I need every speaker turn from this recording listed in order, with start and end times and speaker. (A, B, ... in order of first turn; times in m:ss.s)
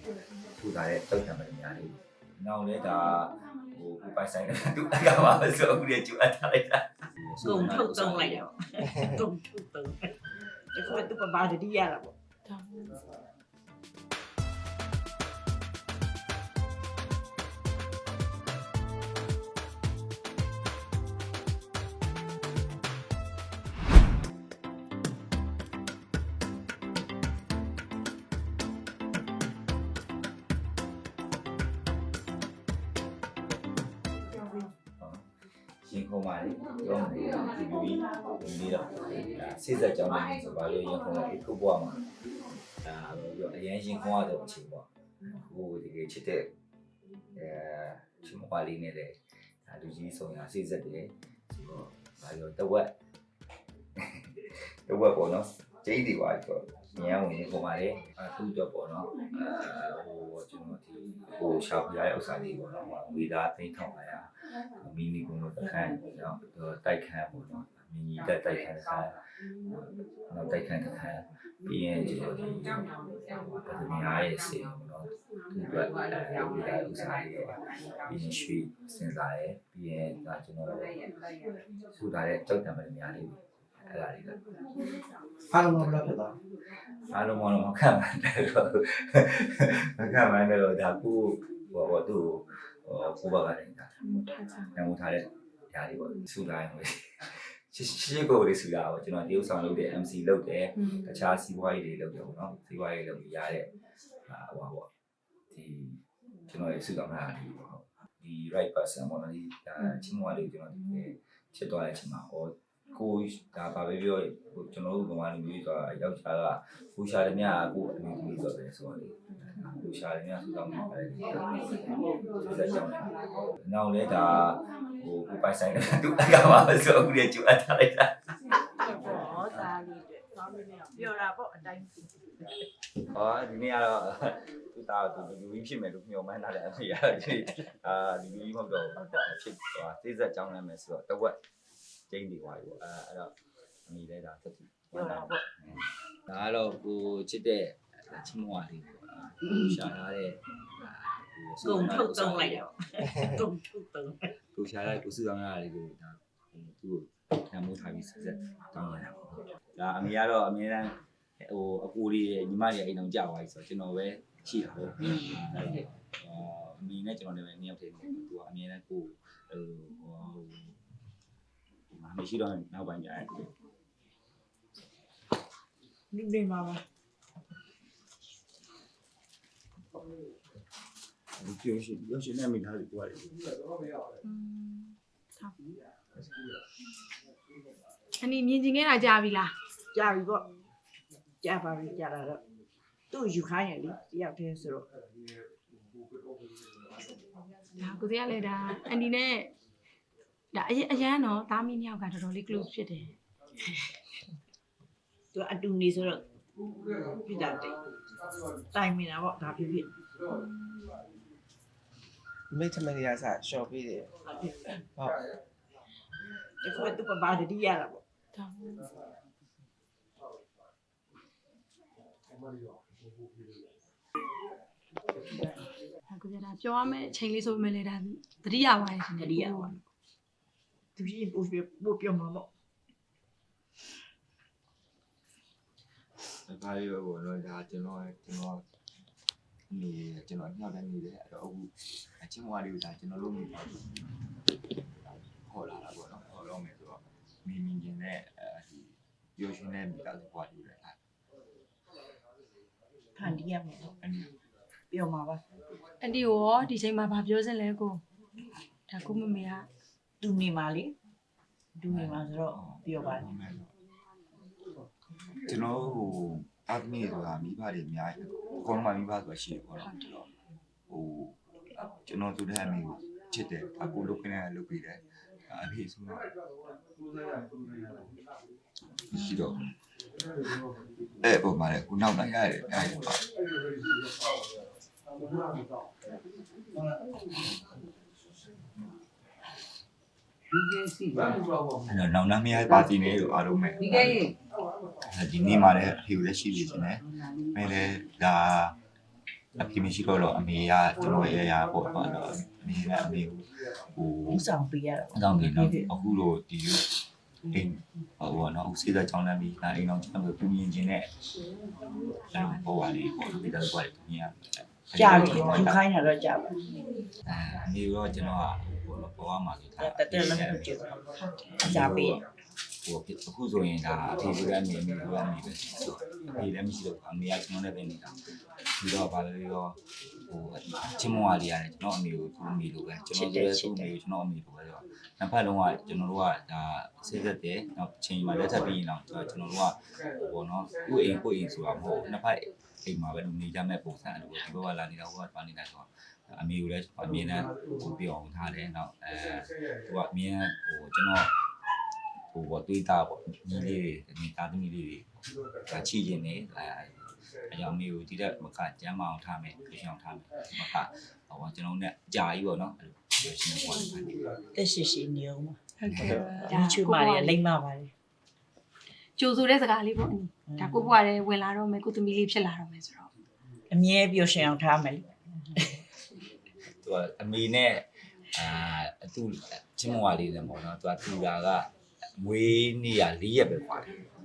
0:00.6-0:08.5 A
0:07.4-0:10.2 B
0:10.7-0:12.1 B
0:12.5-0:13.0 C
0:35.0-0:35.3 A
0:35.8-0:42.1 A
0:42.8-0:46.5 A
0:47.3-0:52.9 A
0:54.0-1:12.8 A
1:13.4-1:20.9 A
1:21.9-1:24.4 A
1:25.5-1:26.3 D
1:25.6-1:26.1 A
1:27.1-1:33.9 A
1:34.0-1:34.7 C
1:34.7-1:43.7 A
1:40.8-1:41.0 C
1:44.2-1:44.9 A
1:45.5-2:01.8 A
2:02.4-2:03.1 A
2:03.6-2:08.2 A
2:08.8-2:12.4 B
2:13.1-2:21.4 A
2:19.0-2:19.3 B
2:22.1-2:23.3 A
2:23.9-2:32.6 A
2:24.9-2:25.5 B
2:31.6-2:34.3 B
2:34.5-2:50.8 A
2:51.9-2:53.5 A
2:56.1-2:56.8 B
3:01.4-3:03.4 A
3:04.2-3:05.6 C
3:08.2-3:09.5 C
3:09.9-3:10.4 B
3:11.4-3:12.4 B
3:13.1-3:14.9 B
3:17.8-3:19.5 C
3:20.5-3:23.2 C
3:25.3-3:26.2 B
3:27.1-3:27.8 B
3:28.7-3:29.9 B
3:32.5-3:34.1 D
3:34.3-3:34.7 B
3:36.6-3:38.0 B
3:38.4-3:38.9 C
3:46.1-3:49.7 C
3:49.2-3:49.8 B
3:51.0-3:52.5 B
3:56.2-3:58.6 A
3:59.7-4:04.0 A
4:05.4-4:11.0 A
4:13.2-4:14.0 B
4:14.0-4:14.3 A
4:14.9-4:15.4 B
4:16.0-4:18.0 C
4:18.9-4:19.7 C
4:20.2-4:20.9 B
4:21.8-4:23.2 B
4:21.9-4:23.7 A
4:25.5-4:30.3 A
4:29.8-4:30.1 C
4:30.9-4:36.3 A
4:39.1-4:39.7 A
4:39.1-4:39.6 C
4:41.2-4:43.2 A
4:51.9-4:54.3 A
4:55.0-4:58.8 A
4:59.6-5:04.4 A
5:04.3-5:05.8 B
5:05.1-5:11.1 A
5:12.3-5:15.8 A
5:15.0-5:16.6 B
5:17.3-5:20.9 A
5:19.8-5:20.9 B
5:21.3-5:21.6 C
5:21.6-5:22.2 A
5:21.6-5:22.2 B
5:22.8-5:28.2 A
5:28.7-5:51.3 A
5:33.1-5:33.9 B
5:52.3-5:55.1 A
5:55.7-6:04.2 A
6:04.5-6:07.9 B
6:05.8-6:07.4 C
6:09.2-6:13.1 C
6:10.5-6:10.9 B
6:13.7-6:15.8 B
6:16.8-6:23.9 A